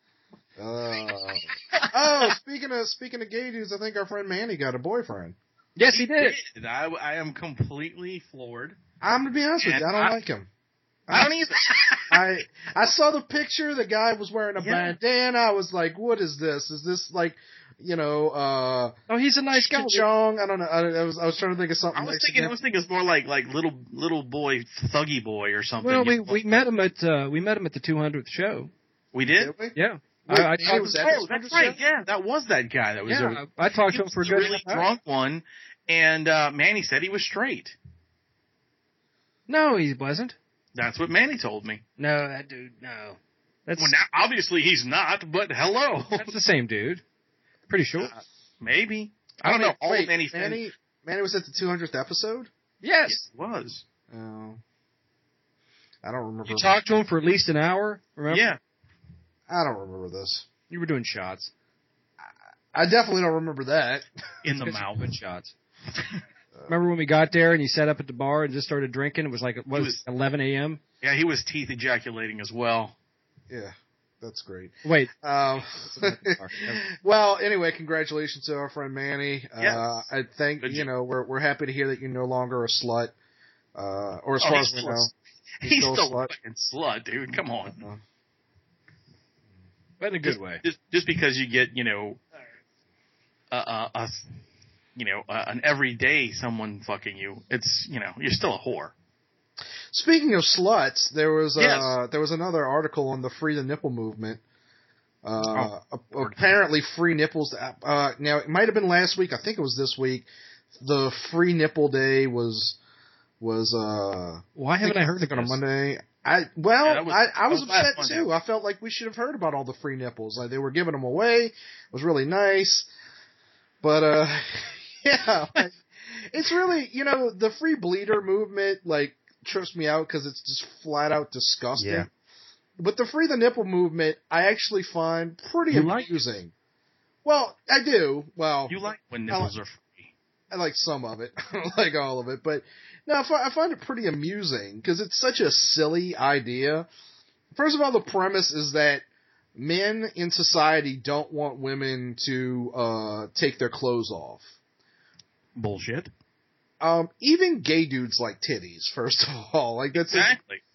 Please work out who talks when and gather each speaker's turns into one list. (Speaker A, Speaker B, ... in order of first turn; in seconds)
Speaker A: 0.6-5.4, 9.0-10.5, 12.1-18.9, 19.5-22.5, 29.4-29.7, 30.3-31.8, 49.4-52.5, 54.1-54.6, 56.0-56.8, 59.5-60.5, 62.7-64.1, 73.5-83.1, 83.8-85.1, 85.6-86.3, 99.9-104.4, 105.2-110.3, 110.8-112.8, 113.4-122.9, 123.8-125.8, 126.3-132.1, 132.8-136.5, 137.2-138.8, 140.5-146.9, 147.5-154.5, 156.8-160.3
Speaker B: 1.7-2.0, 5.9-8.8, 9.6-10.1, 11.1-12.2, 14.6-15.0, 21.9-26.6, 29.1-29.6, 30.6-37.8, 40.8-41.8, 43.8-46.3, 48.6-50.6, 53.1-53.8, 58.3-58.6, 64.4-65.2, 69.8-70.0, 71.0-73.0, 79.6-80.0, 80.6-80.9, 84.4-85.1, 85.6-87.8, 90.2-92.2, 93.5-94.2, 95.0-98.9, 101.6-102.0, 116.8-118.3, 131.8-132.1, 135.7-136.1, 138.7-140.1, 155.6-156.1, 159.9-160.6
Speaker C: 5.8-6.4, 19.1-20.1, 25.8-28.7, 29.8-31.1, 33.1-34.9, 39.5-40.4, 42.0-44.0, 46.2-47.0, 47.7-48.2, 52.8-53.2, 56.5-58.5, 60.7-61.5, 64.6-65.5, 66.7-70.8, 74.8-75.1, 75.8-76.8, 90.0-90.6, 114.6-115.6